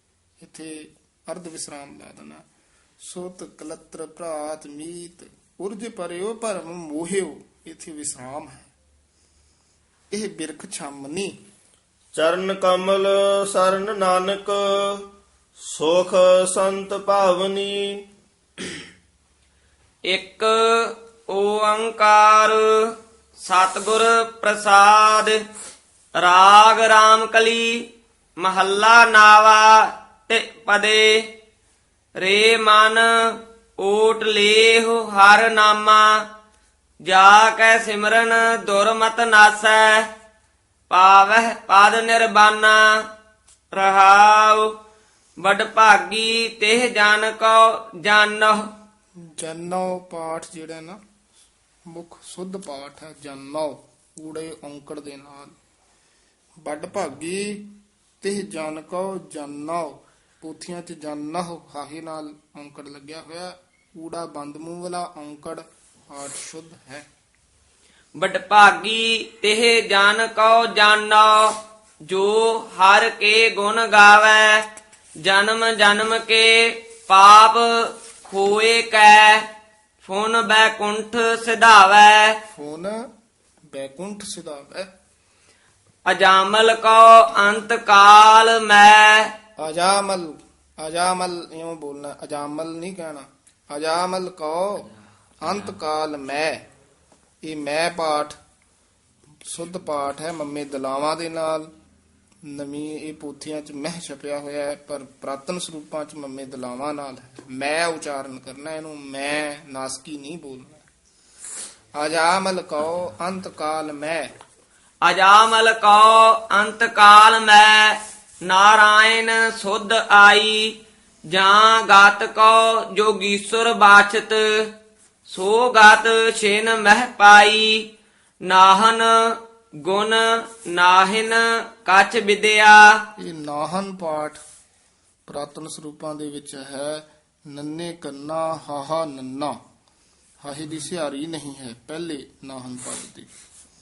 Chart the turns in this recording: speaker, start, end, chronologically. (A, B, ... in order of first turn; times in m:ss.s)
0:00.4-0:02.4 A
0:03.0-0:08.7 A
0:10.1-0:11.4 A
0:12.1-0:15.0 B
0:15.6-0:17.9 B
0:20.1-0:25.4 C
0:26.2-0:27.8 C
0:28.4-0:31.3 C
0:32.2-0:36.2 C
0:37.0-0:40.1 C
0:40.9-0:43.0 C
0:43.7-0:44.7 C
0:45.4-0:48.7 C
0:49.4-0:51.0 A
0:51.9-0:55.5 A
0:56.6-1:07.0 A
1:08.2-1:11.5 C
1:12.1-1:14.6 C
1:15.2-1:19.5 C
1:20.0-1:22.4 C
1:22.5-1:23.0 A
1:23.7-1:24.9 A
1:26.1-1:29.3 C
1:29.6-1:34.9 A
1:35.4-1:36.6 A
1:37.4-1:38.4 A
1:39.4-1:41.7 A
1:42.4-1:50.8 A
1:51.9-1:54.3 A
1:55.0-2:00.8 C
2:01.3-2:04.7 C
2:05.3-2:07.8 C
2:08.4-2:09.3 C
2:09.8-2:13.0 C
2:13.2-2:14.4 A
2:15.3-2:19.6 A
2:20.4-2:23.3 A